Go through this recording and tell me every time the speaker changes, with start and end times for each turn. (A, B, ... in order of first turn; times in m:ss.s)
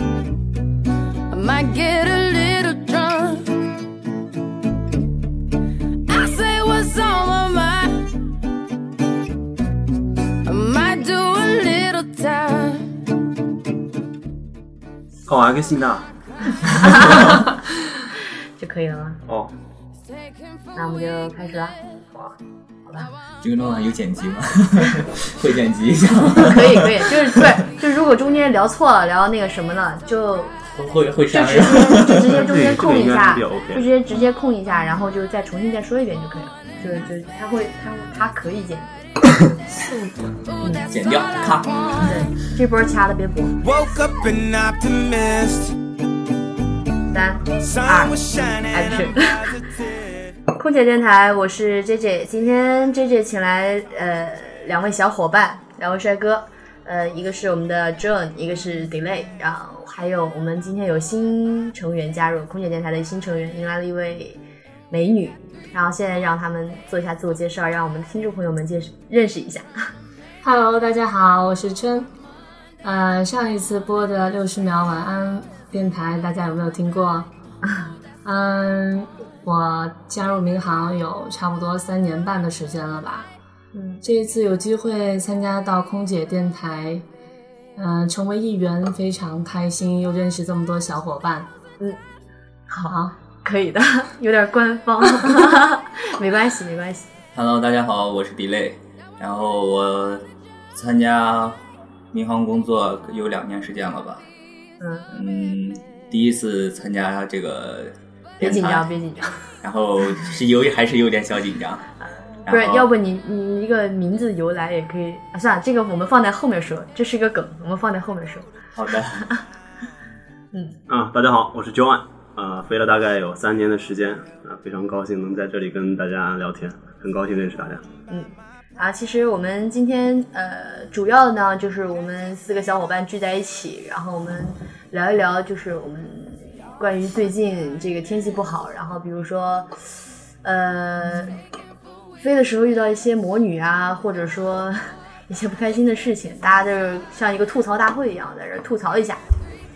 0:01.3-0:03.5 A
0:06.1-0:08.1 A
0:10.4-0:12.9 A
0:15.3-0:16.1 B
0:16.7-0:17.4 C
0:18.6-0:19.2 C
0:19.3-0:19.5 B
0:20.8-0:23.1 C
0:23.4-0:27.4 D
0:26.4-0:30.6 C
0:30.7-0:32.4 D
0:31.3-0:38.9 C
0:32.2-0:33.9 B
0:39.8-0:40.4 E
0:40.9-0:42.2 D
0:42.0-0:43.6 C
0:43.6-0:45.7 F
0:47.1-0:48.2 C
0:47.6-0:50.0 F
0:48.7-0:49.5 C
0:50.5-1:09.7 C
1:10.4-1:12.1 E
1:12.8-1:17.3 E
1:17.6-1:17.9 C
1:18.2-1:23.3 E
1:23.7-1:24.0 C
1:24.0-1:27.1 E
1:27.8-1:31.5 E
1:32.7-1:37.1 C
1:32.9-1:33.1 E
1:37.3-1:41.6 D
1:42.1-1:44.3 D
1:44.8-1:45.1 C
1:45.1-1:48.9 D
1:48.4-1:49.4 C
1:49.6-1:51.9 D
1:52.5-1:52.9 D
1:52.5-1:58.5 C
1:58.7-1:59.3 D
2:00.9-2:07.8 B
2:08.1-2:19.7 C
2:20.4-2:21.4 C
2:22.2-2:29.2 C